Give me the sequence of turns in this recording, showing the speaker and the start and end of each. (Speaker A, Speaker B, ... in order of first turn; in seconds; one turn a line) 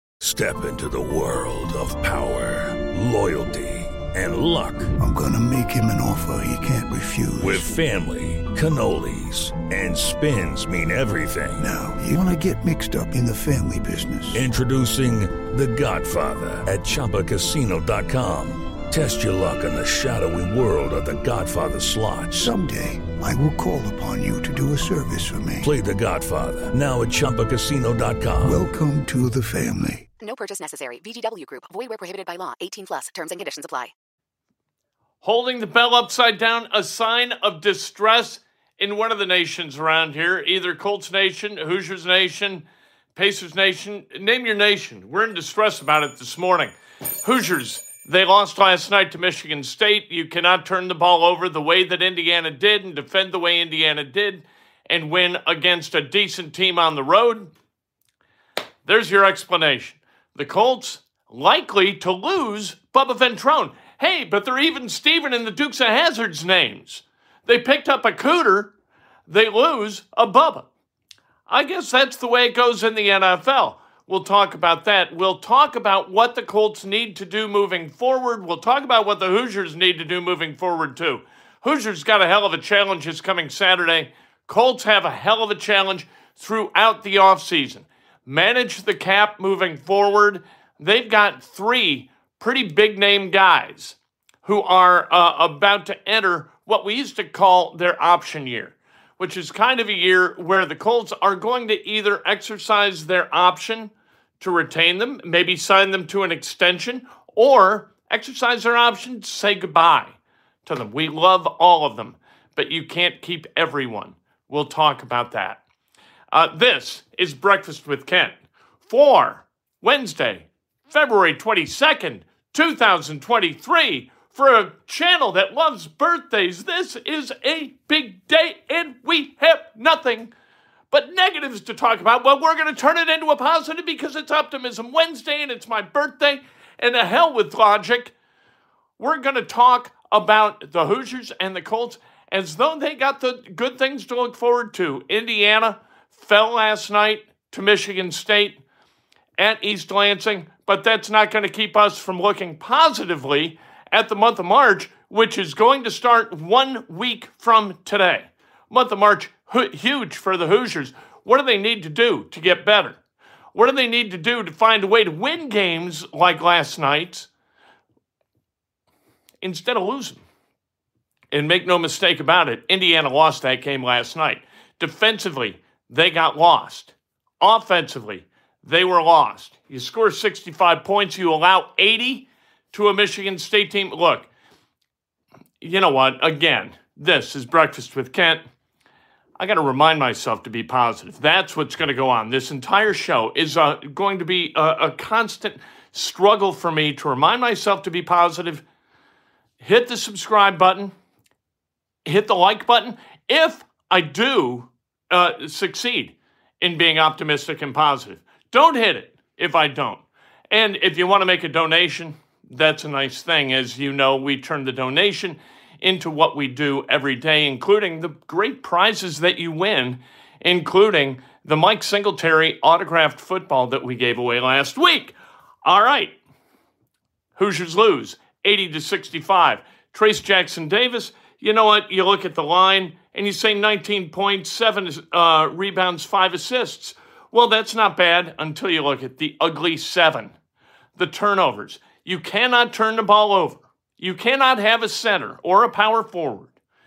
Speaker A: 0.2-4.9
Speaker B: 5.0-7.8
Speaker A: 7.4-11.7
Speaker B: 11.6-14.4
Speaker A: 14.3-22.5
Speaker B: 22.3-25.7
Speaker A: 25.6-28.6
Speaker B: 28.4-30.1
Speaker C: 30.2-33.9
Speaker D: 35.2-57.5
Speaker D: 58.9-68.7
Speaker D: 69.3-70.7
Speaker D: 71.5-115.6
Speaker D: 116.3-118.4
Speaker D: 118.9-130.3
Speaker D: 130.9-138.1
Speaker D: 139.0-148.6
Speaker D: 149.4-163.0
Speaker D: 163.5-167.3
Speaker D: 169.4-170.2
Speaker D: 171.3-184.3
Speaker D: 185.6-188.4
Speaker D: 189.4-198.6
Speaker D: 199.6-200.9
Speaker D: 202.1-226.2
Speaker D: 227.4-240.3
Speaker D: 241.0-246.5